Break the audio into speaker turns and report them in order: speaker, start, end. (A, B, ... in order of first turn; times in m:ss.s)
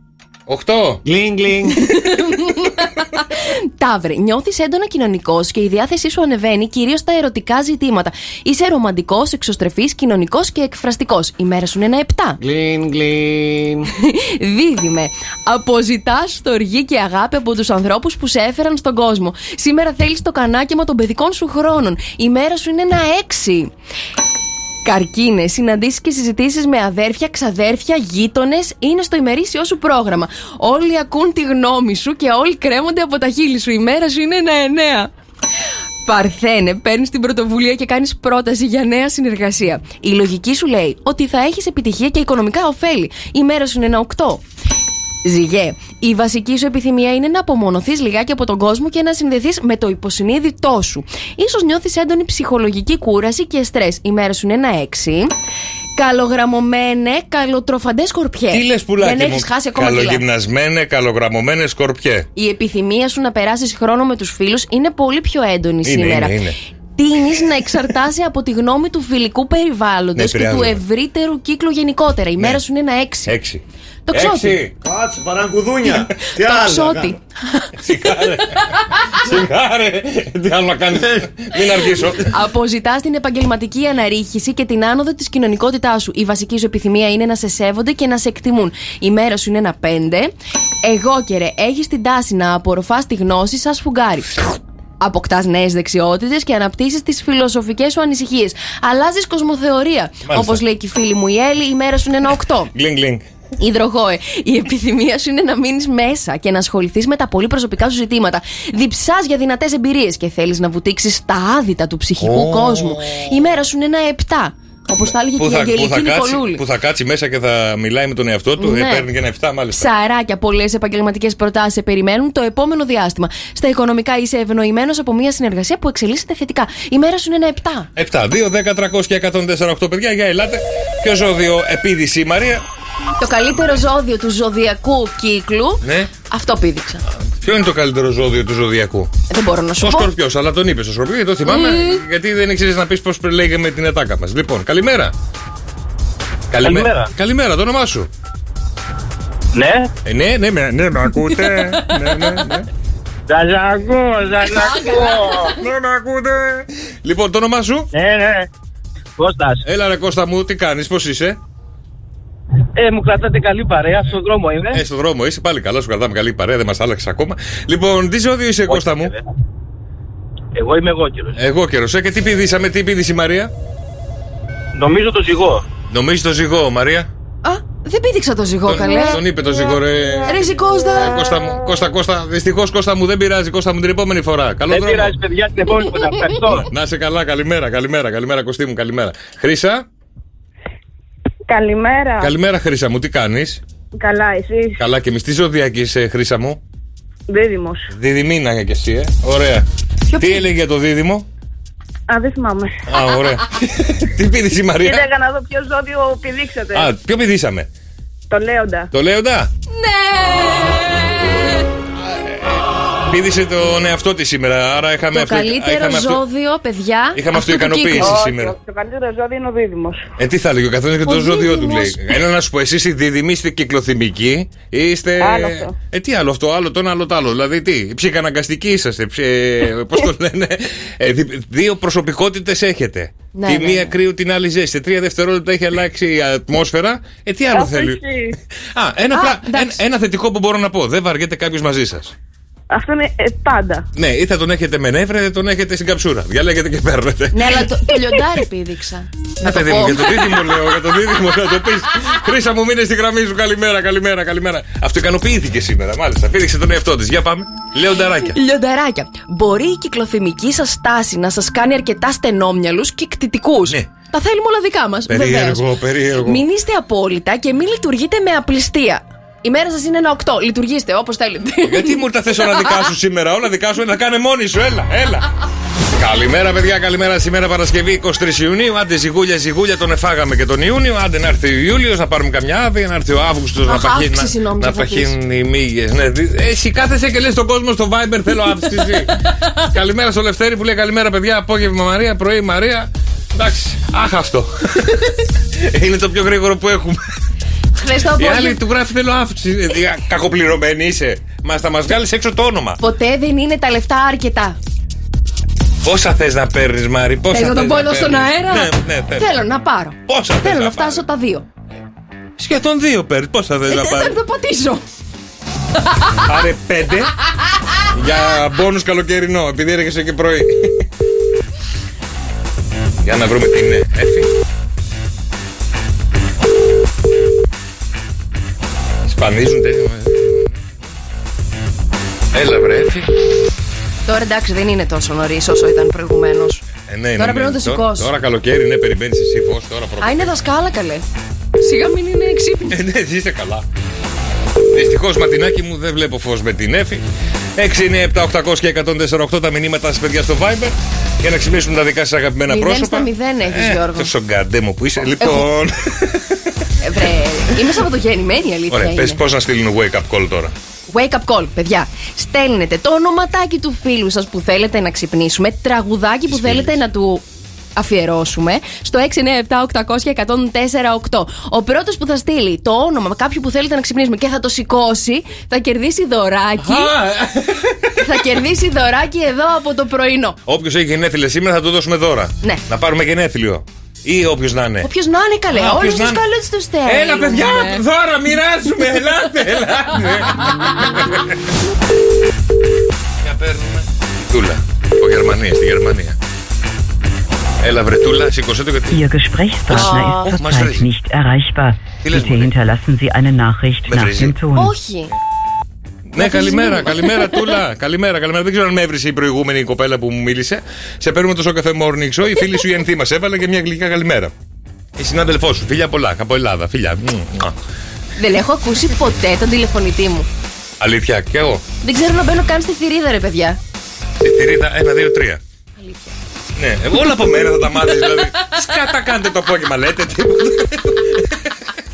0:00.5-0:01.0 A
0:01.0-0:01.8 B
0:01.8-0:12.4 C
0:12.4-0:13.9 B
0:14.0-0:23.7 C
0:24.8-0:35.1 C
0:36.1-0:44.4 C
0:45.2-0:55.3 C
0:56.0-1:00.2 C
0:58.5-1:02.3 A
1:02.4-1:06.4 C
1:05.8-1:06.6 A
1:07.0-1:13.4 C
1:10.2-1:10.8 A
1:13.3-1:14.7 A
1:14.1-1:14.6 C
1:14.7-1:17.2 B
1:15.8-1:16.1 A
1:16.4-1:17.7 C
1:17.8-1:22.3 A
1:22.3-1:34.4 C
1:35.0-1:42.7 C
1:40.2-1:40.6 A
1:42.7-1:43.2 A
1:43.6-1:56.6 C
1:52.2-1:53.3 A
1:55.4-1:59.9 A
1:58.6-1:59.1 C
1:59.7-2:07.9 C
2:08.0-2:12.6 A
2:13.2-2:17.0 C
2:15.8-2:16.1 A
2:17.2-2:19.1 A
2:19.3-2:20.1 C
2:19.8-2:25.1 A
2:21.5-2:22.0 C
2:26.5-2:28.1 A
2:26.6-2:27.1 D
2:29.6-2:29.9 D
2:30.0-2:32.7 A
2:33.3-2:35.6 D
2:34.7-2:37.9 A
2:34.7-2:35.1 C
2:37.9-2:38.5 D
2:39.2-2:39.6 D
2:39.6-2:41.4 A
2:42.8-2:44.8 D
2:44.7-2:49.1 A
2:48.7-2:49.2 D
2:50.6-2:51.3 D
2:51.4-2:53.5 A
2:54.8-2:55.6 D
2:55.9-2:57.1 A
2:57.4-2:59.2 C
2:58.7-3:05.2 A
3:00.3-3:01.2 C
3:04.7-3:06.7 D
3:06.4-3:09.9 A
3:11.5-3:12.3 E
3:12.2-3:13.6 A
3:14.0-3:14.8 E
3:14.8-3:16.6 A
3:17.3-3:17.9 E
3:17.9-3:19.7 A
3:20.1-3:20.4 C
3:20.2-3:21.3 A
3:22.1-3:22.9 E
3:22.9-3:25.1 A
3:24.8-3:26.9 E
3:26.7-3:27.7 A
3:28.3-3:28.9 E
3:28.9-3:29.5 A
3:29.7-3:31.6 C
3:32.0-3:36.2 A
3:35.1-3:38.2 C
3:37.1-3:38.6 A
3:38.0-3:40.1 E
3:40.2-3:58.0 A
3:41.1-3:42.0 C
3:45.2-3:45.8 E
3:53.4-3:54.0 C
3:57.5-3:58.3 E
3:58.6-4:02.1 A
3:59.1-3:59.8 C
4:02.7-4:03.8 E
4:04.0-4:07.7 A
4:07.3-4:10.5 C
4:09.4-4:18.4 A
4:18.3-4:25.7 C
4:25.1-4:26.4 A
4:26.2-4:32.0 C
4:31.6-4:35.3 A
4:35.9-4:57.1 A
4:43.6-4:45.2 C
4:57.8-4:58.6 C
4:58.2-5:02.8 A
5:02.8-5:04.6 C
5:05.8-5:09.4 A
5:07.3-5:11.4 C
5:10.1-5:11.0 A
5:12.4-5:14.2 A
5:13.7-5:14.8 C
5:15.9-5:16.2 C
5:16.2-5:17.1 A
5:17.9-5:20.9 A
5:23.0-5:24.3 A
5:29.0-5:30.6 A
5:32.3-5:33.1 A
5:34.1-5:36.6 C
5:36.9-5:40.4 A
5:37.2-5:38.1 C
5:40.0-5:41.0 C
5:41.6-5:42.8 C
5:42.7-5:43.6 A
5:44.7-5:47.0 A
5:47.6-5:56.7 A
5:52.5-5:54.1 C
5:55.2-5:55.4 C
5:56.8-5:59.2 C
5:58.7-6:00.5 A
6:00.9-6:07.2 C
6:06.3-6:06.8 A
6:07.8-6:16.9 C
6:16.6-6:18.2 A
6:18.0-6:20.4 C
6:20.5-6:24.9 A
6:24.8-6:27.8 C
6:25.5-6:26.2 A
6:26.8-6:31.4 A
6:33.2-6:36.2 A
6:37.6-6:39.1 A
6:38.9-6:44.7 F
6:39.7-6:40.9 A
6:39.7-6:40.4 C
6:42.0-6:42.5 A
6:43.9-6:44.4 A
6:44.6-6:45.2 C
6:46.1-6:54.3 A
6:46.2-6:47.5 C
6:55.0-6:57.6 A
6:58.2-7:00.3 C
7:00.8-7:01.6 A
7:01.8-7:03.6 C
7:04.2-7:05.4 A
7:05.8-7:06.1 C
7:06.6-7:11.6 A